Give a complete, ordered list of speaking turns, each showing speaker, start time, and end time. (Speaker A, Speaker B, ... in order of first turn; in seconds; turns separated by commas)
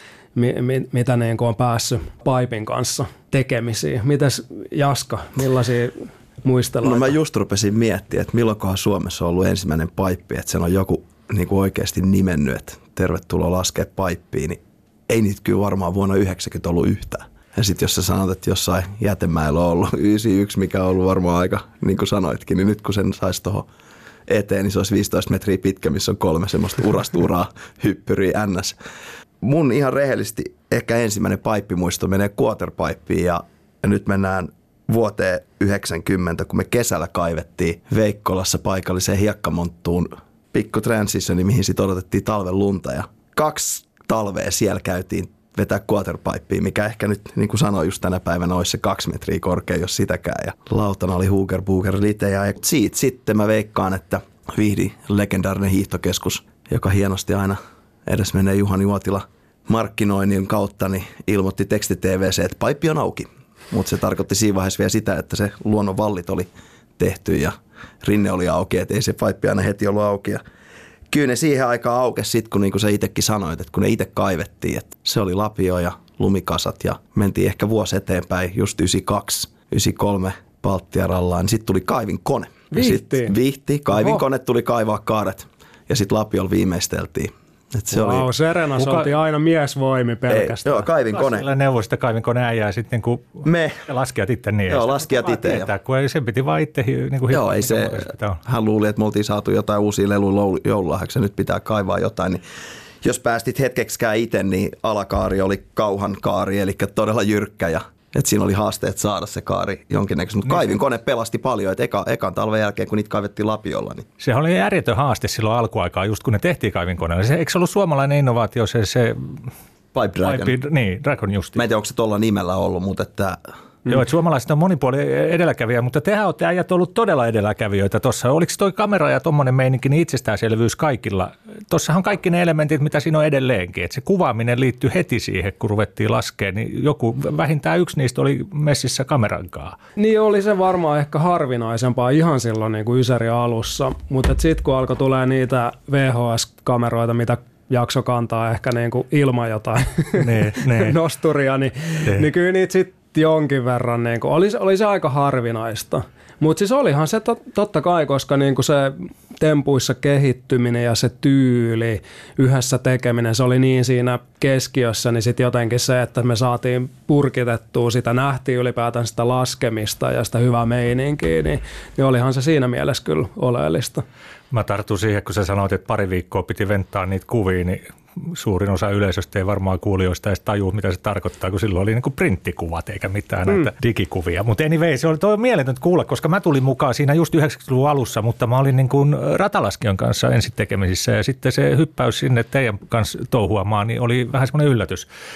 Speaker A: 0.3-7.1, Speaker B: 6.8-23.7, Speaker B: 24.3-28.8, Speaker B: 29.4-70.4, Speaker B: 71.1-88.3, Speaker A: 82.7-83.3, Speaker A: 83.9-84.2, Speaker A: 87.9-90.9, Speaker C: 88.8-89.1, Speaker B: 90.3-91.4, Speaker C: 91.1-98.4, Speaker B: 93.4-93.8, Speaker B: 94.7-95.7, Speaker B: 97.3-102.4, Speaker B: 103.0-114.0, Speaker C: 114.2-119.5, Speaker B: 119.9-120.5, Speaker C: 120.2-121.6, Speaker B: 121.5-123.4, Speaker C: 123.9-139.8, Speaker A: 140.0-174.0, Speaker C: 150.2-150.9, Speaker C: 174.5-195.1